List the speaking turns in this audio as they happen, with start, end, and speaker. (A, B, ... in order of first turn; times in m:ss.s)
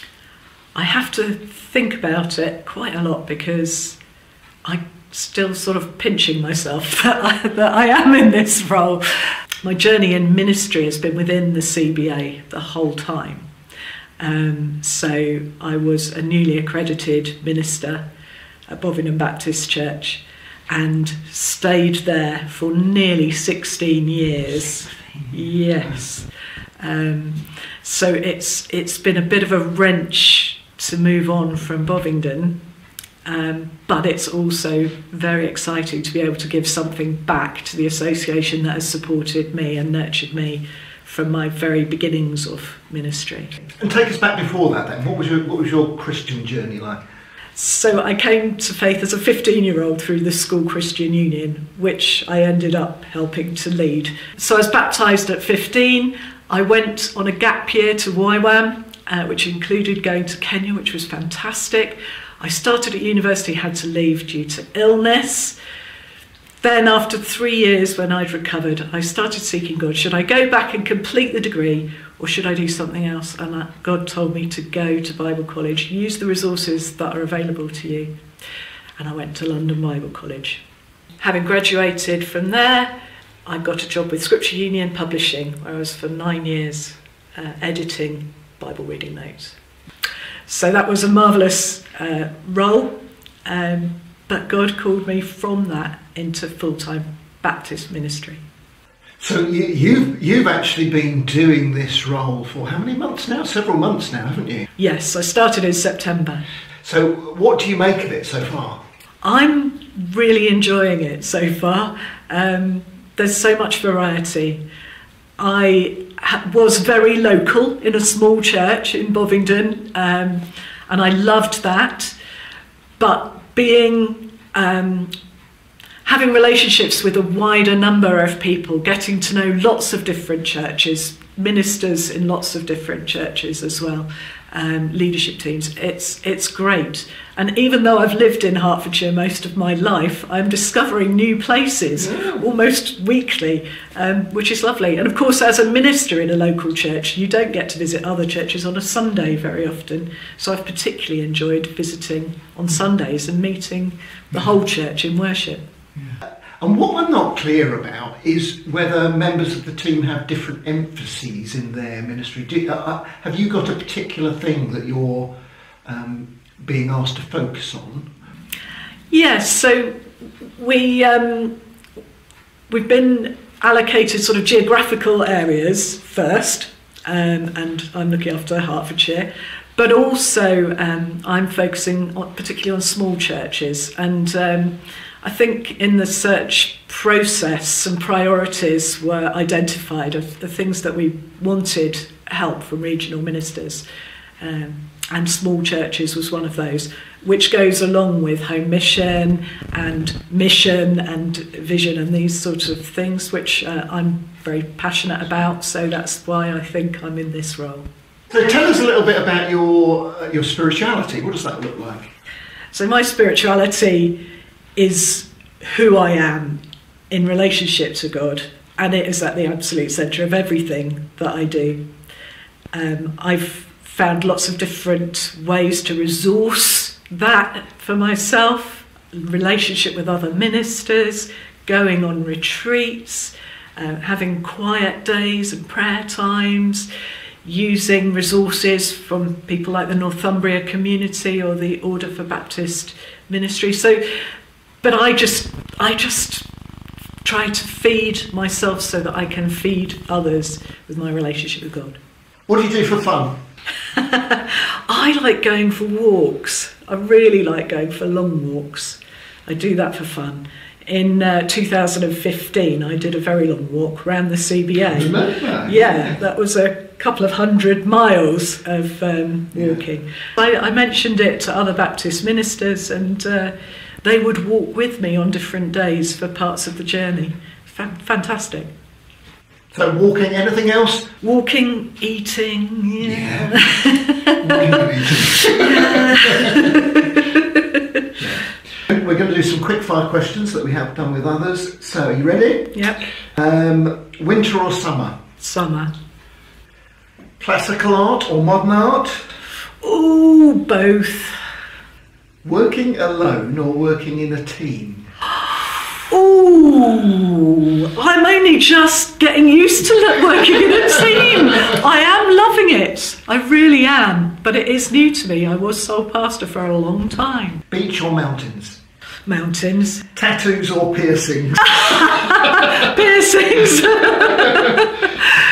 0:00.8-0:04.0 A
0:04.6-0:09.0 A
0:09.6-0:13.5 A
0:14.2-0:18.0 A
0:18.7-0:26.3 A
0:26.8-0:32.6 A
0:33.3-0:43.6 A
0:43.8-0:47.0 B
0:47.6-1:05.6 A
1:06.6-1:18.1 A
1:19.0-1:20.6 A
1:21.2-1:22.9 A
1:23.5-1:29.6 A
1:30.5-1:38.4 A
1:39.2-1:44.7 B
1:44.8-1:46.4 A
1:46.8-1:48.8 B
1:49.2-1:54.6 A
1:55.4-2:02.2 A
2:03.0-2:05.1 A
2:06.0-2:35.6 A
2:22.0-2:22.4 B
2:36.0-2:45.3 B
2:45.9-2:48.1 B
2:49.1-2:50.0 A
2:50.6-2:51.6 A
2:52.7-3:13.8 A
3:14.4-3:27.9 A
3:28.3-3:32.1 B
3:32.7-3:34.2 A
3:34.8-3:41.8 A
3:42.7-3:56.9 A
3:57.4-4:04.0 A
4:04.8-4:06.5 A
4:07.2-4:12.0 A
4:12.5-4:13.3 B
4:13.9-4:38.7 A
4:24.9-4:26.2 B
4:39.7-4:41.1 B
4:41.2-4:48.0 A
4:43.0-4:43.7 B
4:44.4-4:46.6 B
4:48.2-4:52.8 B
4:52.7-4:53.0 A
4:53.3-4:55.2 B
4:55.4-4:55.9 A
4:57.4-4:59.2 B
4:59.8-5:01.4 A
5:02.4-5:05.1 B
5:06.1-5:17.6 A
5:17.7-5:18.8 B
5:19.3-5:20.1 A
5:20.2-5:22.8 B
5:21.7-5:25.3 A